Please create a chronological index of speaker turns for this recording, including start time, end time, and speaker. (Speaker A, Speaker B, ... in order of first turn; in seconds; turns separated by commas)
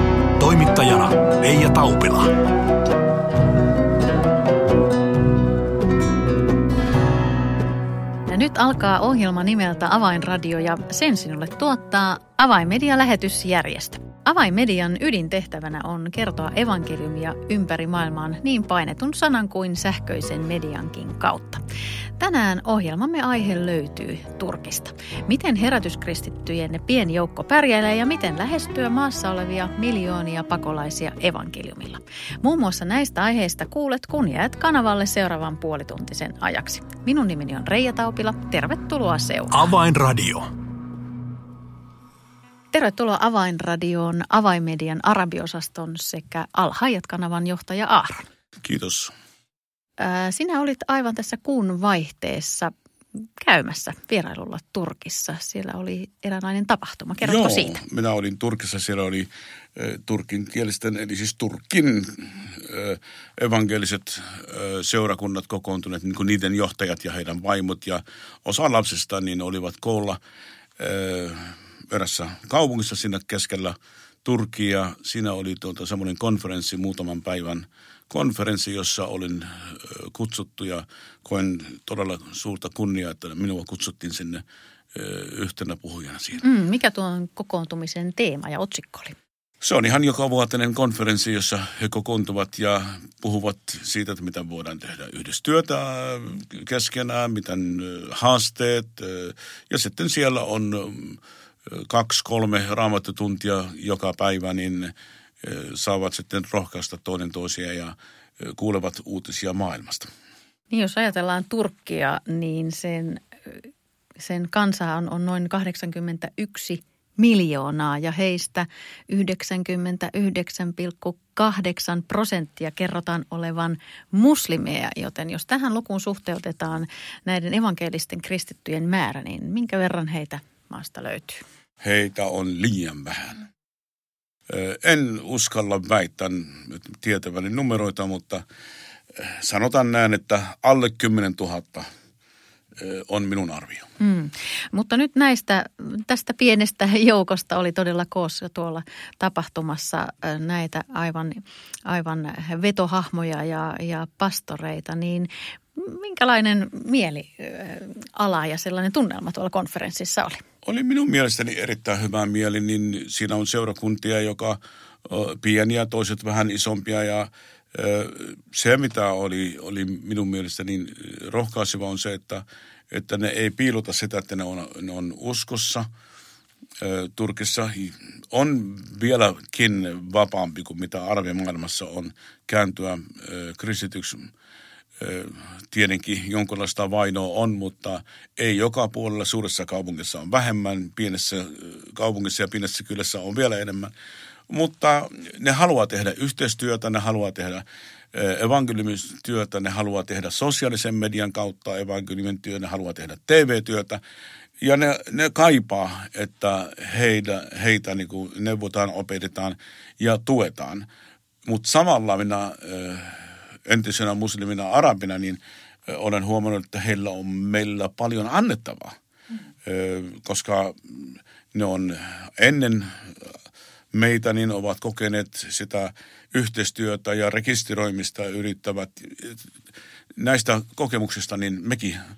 Speaker A: 0.4-2.3, Speaker B: 8.3-21.6, Speaker B: 22.2-39.5, Speaker A: 39.5-40.5, Speaker B: 42.7-48.2, Speaker C: 48.6-49.1, Speaker B: 50.0-52.7, Speaker B: 53.4-57.8, Speaker C: 57.2-70.2, Speaker C: 70.8-84.4, Speaker C: 84.9-86.4, Speaker B: 86.4-89.2, Speaker C: 89.6-110.1, Speaker B: 110.7-113.2, Speaker B: 114.2-131.4, Speaker C: 131.8-133.5, Speaker C: 134.5-138.4, Speaker C: 139.1-141.9, Speaker C: 142.8-143.9, Speaker B: 144.0-160.4, Speaker C: 160.6-175.9, Speaker C: 176.8-184.3, Speaker C: 185.0-193.9, Speaker C: 194.5-204.0, Speaker C: 204.6-210.9, Speaker C: 211.4-218.9, Speaker C: 219.6-223.4, Speaker C: 223.9-229.5, Speaker C: 230.2-232.0